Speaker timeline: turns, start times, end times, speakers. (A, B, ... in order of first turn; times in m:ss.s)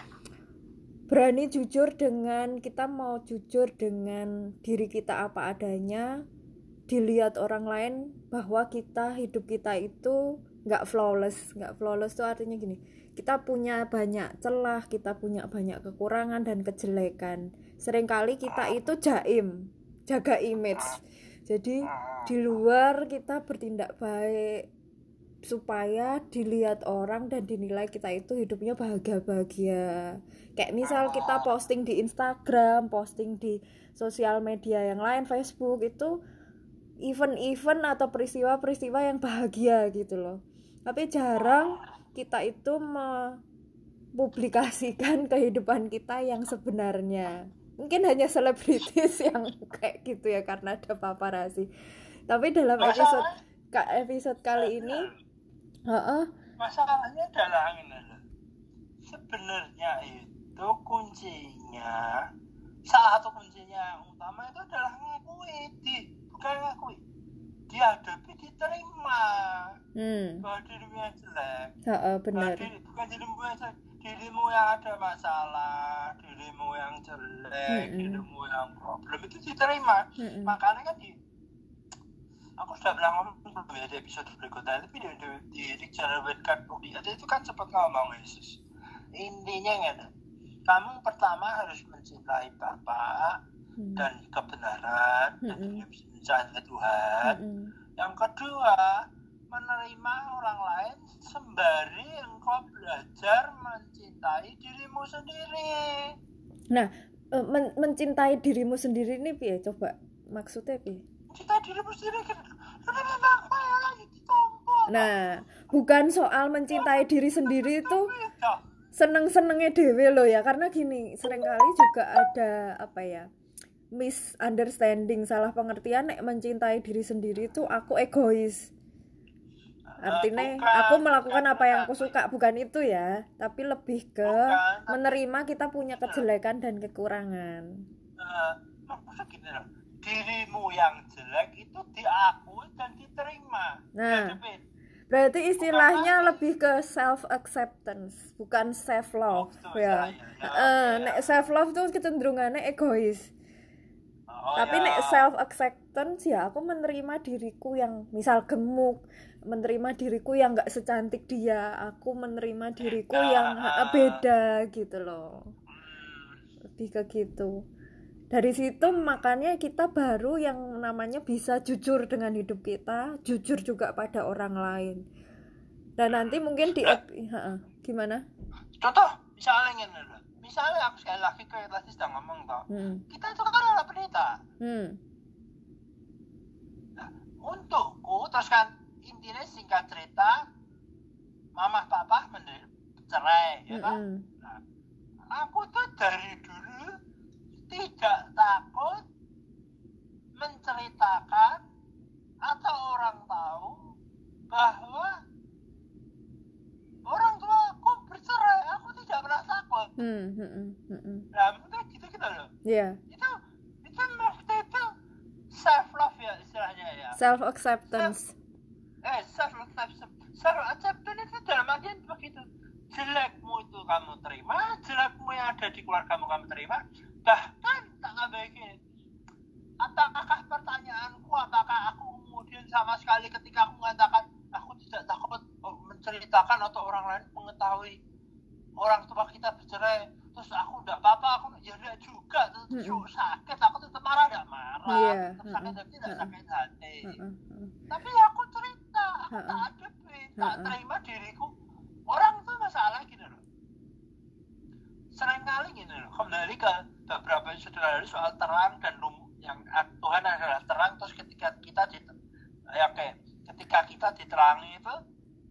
0:01.1-0:06.1 A
0:06.9-0:19.5 A
0:20.1-0:24.7 A
0:21.9-0:22.3 B
0:25.5-0:30.1 A
0:30.6-0:36.1 A
0:30.8-0:31.5 B
0:37.1-0:43.4 A
0:44.2-0:51.7 A
0:52.3-0:55.1 A
0:52.8-0:53.3 B
0:54.6-0:55.1 B
0:55.9-0:56.3 A
0:56.6-0:58.2 B
0:59.1-1:02.3 B
1:02.9-1:07.0 B
1:07.7-1:09.8 B
1:10.0-1:10.5 A
1:10.4-1:11.7 B
1:11.9-1:12.7 A
1:12.4-1:21.1 B
1:17.7-1:18.2 A
1:20.2-1:20.6 A
1:22.6-1:28.6 B
1:29.2-1:30.1 B
1:30.7-1:33.4 B
1:33.8-1:34.1 A
1:34.0-1:37.4 B
1:35.4-1:35.8 A
1:37.2-1:37.7 A
1:38.0-1:39.0 B
1:39.5-1:46.2 B
1:46.7-1:51.0 A
1:51.3-1:55.1 B
1:54.9-1:58.1 A
1:56.7-1:58.6 B
1:59.0-2:03.3 A
2:04.0-2:08.7 A
2:10.0-2:12.1 B
2:10.0-2:17.8 A
2:14.3-2:15.2 B
2:16.0-2:16.2 B
2:18.2-2:24.6 B
2:24.0-2:24.4 A
2:25.1-2:33.3 A
2:25.6-2:26.4 B
2:29.3-2:31.3 B
2:34.3-2:35.3 B
2:34.6-2:39.0 A
2:39.5-2:45.4 A
2:42.8-2:44.2 B
2:45.7-2:46.4 B
2:46.8-2:47.5 A
2:48.3-2:55.0 A
2:56.0-2:58.2 A
2:56.2-2:57.0 B
2:58.8-3:04.4 B
3:02.7-3:03.0 A
3:04.6-3:05.0 A
3:07.0-3:10.4 B
3:11.6-3:14.6 B
3:13.7-3:14.3 A
3:15.3-3:17.0 B
3:17.7-3:19.0 B
3:20.4-3:21.6 B
3:22.4-3:23.8 B
3:24.5-3:25.1 B
3:27.0-3:29.9 B
3:30.0-3:31.3 A
3:31.3-3:32.5 B
3:32.7-3:33.0 A
3:33.8-3:34.9 B
3:35.5-3:37.2 B
3:37.2-3:38.4 A
3:39.0-3:48.8 B
3:49.8-3:58.0 B
3:58.8-4:07.2 B
4:02.7-4:03.0 A
4:04.9-4:06.3 A
4:07.0-4:07.8 A
4:07.9-4:11.5 B
4:09.3-4:09.7 A
4:10.4-4:10.8 A
4:12.1-4:13.4 B
4:15.2-4:22.2 B
4:22.7-4:25.0 B